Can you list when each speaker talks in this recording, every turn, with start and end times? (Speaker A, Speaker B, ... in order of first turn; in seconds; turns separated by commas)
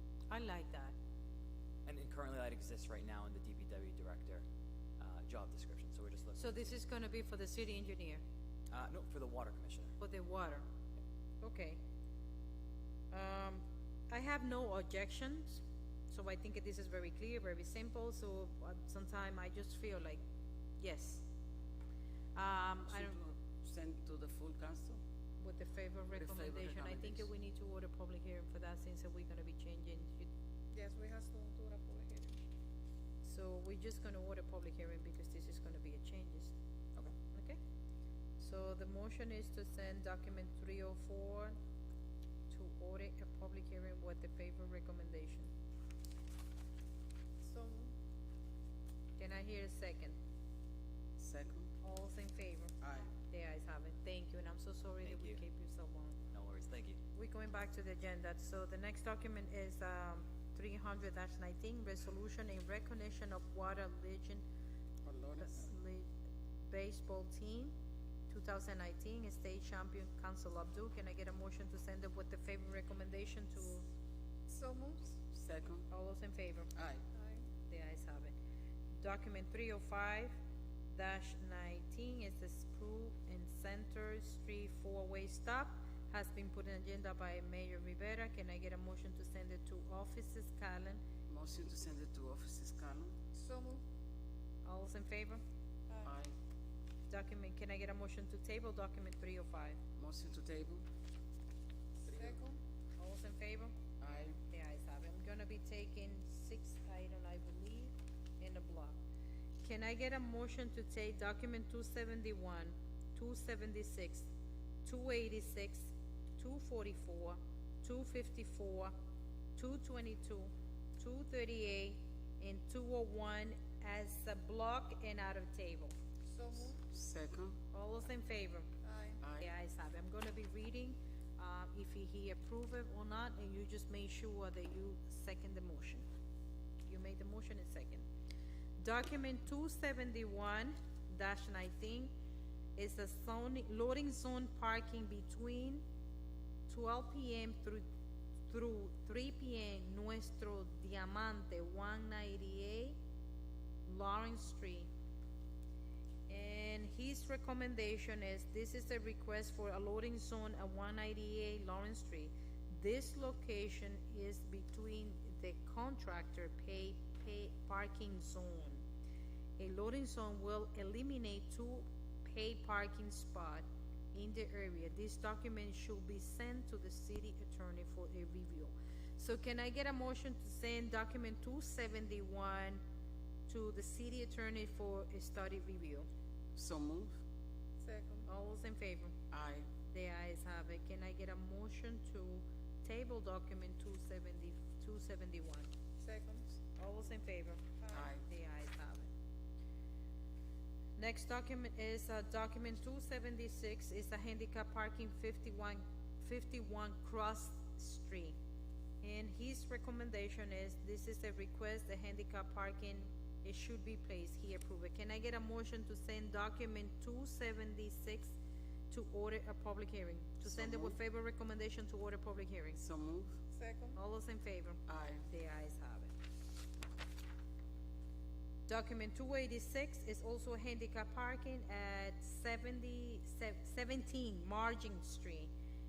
Speaker A: 0.3-0.9, Speaker B: 1.9-4.5, Speaker B: 5.0-6.8, Speaker A: 6.4-8.2, Speaker B: 8.7-9.9, Speaker A: 10.0-10.7, Speaker A: 11.4-11.8, Speaker A: 13.1-20.2, Speaker A: 20.8-21.3, Speaker A: 22.4-23.2, Speaker C: 22.9-25.0, Speaker A: 25.4-30.3, Speaker C: 26.1-27.3, Speaker D: 30.7-32.4, Speaker A: 33.2-36.5, Speaker A: 37.3-37.6, Speaker A: 38.4-41.6, Speaker A: 42.5-45.5, Speaker D: 47.4-47.9, Speaker A: 49.2-50.2, Speaker C: 51.2-51.7, Speaker A: 51.8-52.7, Speaker C: 52.8-53.1, Speaker A: 53.3-56.2, Speaker B: 55.0-55.4, Speaker B: 56.3-57.0, Speaker A: 57.2-64.4, Speaker C: 65.0-65.6, Speaker A: 65.5-66.1, Speaker A: 66.7-67.7, Speaker A: 68.3-73.9, Speaker D: 74.5-75.2, Speaker C: 75.3-75.9, Speaker A: 75.9-76.7, Speaker C: 76.8-77.0, Speaker D: 77.2-77.5, Speaker A: 77.7-78.3, Speaker A: 79.0-80.3, Speaker A: 80.9-91.0, Speaker C: 91.3-93.2, Speaker D: 93.3-93.8, Speaker A: 94.6-95.4, Speaker C: 96.0-96.3, Speaker A: 97.1-99.8, Speaker C: 100.0-100.8, Speaker D: 102.0-102.6, Speaker A: 103.0-103.7, Speaker C: 104.0-104.4, Speaker A: 104.5-109.0, Speaker A: 109.6-114.3, Speaker A: 114.8-118.9, Speaker A: 119.6-126.0, Speaker D: 126.3-126.8, Speaker C: 126.9-127.6, Speaker A: 127.7-128.7, Speaker D: 128.8-129.2, Speaker C: 129.2-129.5, Speaker A: 129.4-136.1, Speaker A: 136.9-138.1, Speaker A: 138.8-142.1, Speaker A: 142.8-145.8, Speaker A: 146.7-147.8, Speaker A: 148.5-153.0, Speaker A: 153.9-154.9, Speaker A: 156.3-168.8, Speaker A: 169.6-182.8, Speaker A: 183.5-186.1, Speaker C: 186.6-187.2, Speaker D: 187.8-188.3, Speaker A: 188.3-189.1, Speaker C: 189.3-189.7, Speaker A: 189.9-195.7, Speaker D: 196.0-196.6, Speaker A: 196.8-199.1, Speaker C: 197.9-198.2, Speaker A: 201.0-208.4, Speaker A: 209.0-218.3, Speaker A: 218.9-222.8, Speaker C: 220.5-221.0, Speaker C: 222.8-223.4, Speaker D: 223.6-224.0, Speaker A: 224.0-226.1, Speaker C: 224.9-225.2, Speaker A: 228.7-235.5